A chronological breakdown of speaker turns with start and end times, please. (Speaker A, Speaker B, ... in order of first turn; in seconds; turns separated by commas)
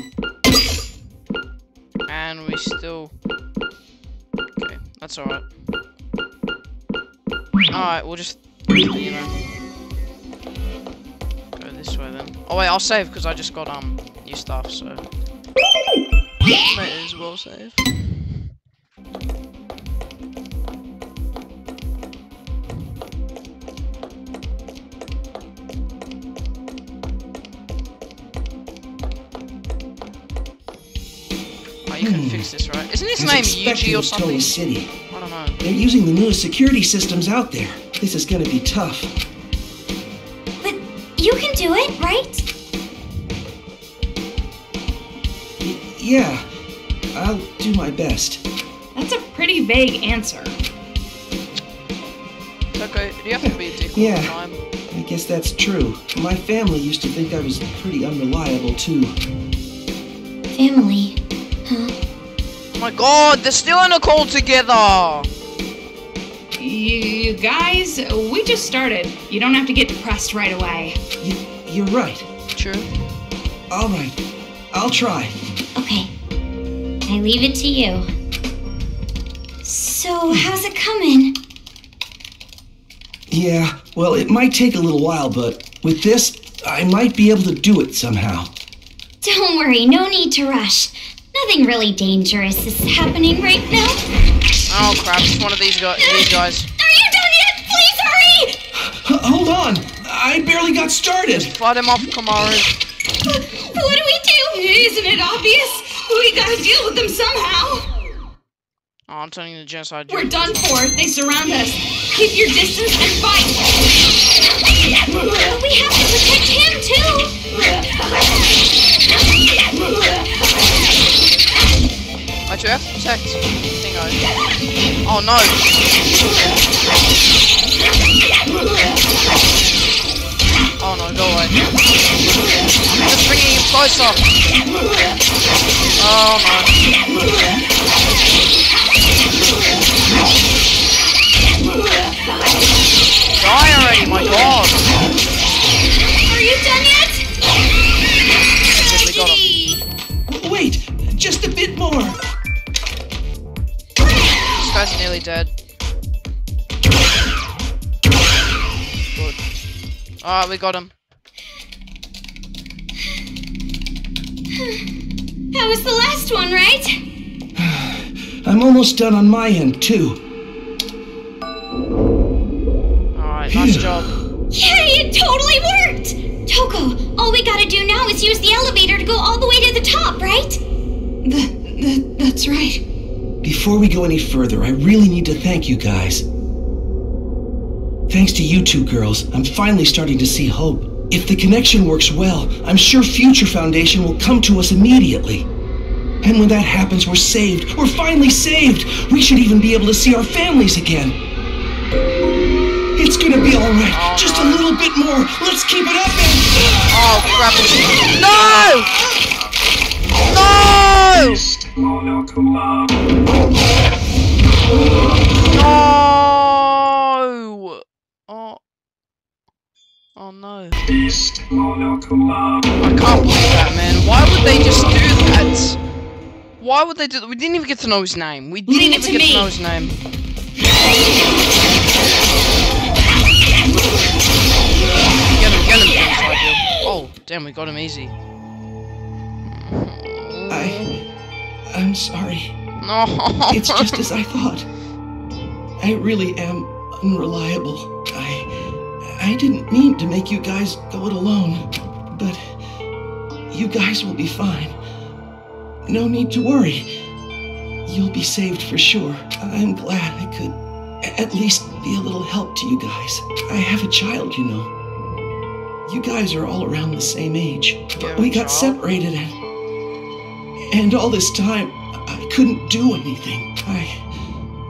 Speaker A: 2.1-3.1, Speaker A: 4.6-5.5, Speaker A: 7.7-9.4, Speaker A: 11.6-15.0, Speaker A: 16.6-18.3, Speaker A: 31.9-34.6, Speaker B: 32.0-32.5, Speaker B: 33.1-34.9, Speaker A: 35.1-35.6, Speaker B: 35.6-39.1, Speaker C: 40.6-42.4, Speaker B: 45.6-46.4, Speaker B: 47.1-48.4, Speaker D: 48.9-50.6, Speaker A: 52.7-54.6, Speaker B: 53.4-54.4, Speaker B: 54.9-59.1, Speaker C: 60.5-61.9, Speaker A: 62.7-65.3, Speaker D: 66.6-71.0, Speaker B: 71.2-72.2, Speaker A: 72.5-72.9, Speaker B: 73.7-74.2, Speaker B: 74.7-75.3, Speaker C: 75.7-76.1, Speaker C: 77.0-78.1, Speaker C: 79.6-81.3, Speaker B: 83.3-88.5, Speaker C: 89.2-94.0, Speaker A: 94.7-96.7, Speaker C: 96.8-98.6, Speaker B: 98.7-101.5, Speaker A: 101.3-102.7, Speaker D: 103.3-107.9, Speaker A: 109.1-110.9, Speaker D: 110.1-113.6, Speaker C: 115.5-117.3, Speaker A: 122.5-124.2, Speaker A: 125.0-125.6, Speaker A: 130.8-131.6, Speaker A: 133.0-134.3, Speaker A: 136.0-136.7, Speaker A: 143.4-145.0, Speaker C: 146.2-147.2, Speaker A: 148.7-149.4, Speaker C: 148.8-149.8, Speaker B: 150.3-152.2, Speaker A: 154.5-155.5, Speaker A: 159.1-159.4, Speaker A: 160.2-160.9, Speaker C: 164.5-164.8, Speaker C: 165.5-167.0, Speaker B: 167.6-170.2, Speaker A: 173.1-174.1, Speaker B: 173.5-174.2, Speaker C: 174.5-180.6, Speaker D: 181.2-182.8, Speaker B: 183.4-186.2, Speaker B: 188.1-195.5, Speaker B: 196.2-201.2, Speaker B: 202.9-206.5, Speaker A: 203.9-204.7, Speaker A: 206.9-209.0, Speaker A: 210.2-211.4, Speaker A: 215.5-218.6, Speaker A: 220.2-220.8, Speaker A: 222.8-225.8, Speaker A: 226.6-230.0, Speaker D: 228.7-229.5, Speaker A: 235.3-238.1, Speaker A: 239.5-240.9, Speaker B: 240.5-240.8, Speaker B: 241.7-242.5, Speaker A: 242.8-244.0, Speaker B: 243.5-244.7, Speaker B: 245.8-248.5, Speaker B: 249.0-252.5, Speaker B: 253.5-254.8, Speaker B: 255.8-256.9, Speaker B: 257.9-264.7, Speaker B: 265.9-269.4, Speaker A: 267.9-268.8, Speaker B: 270.7-274.0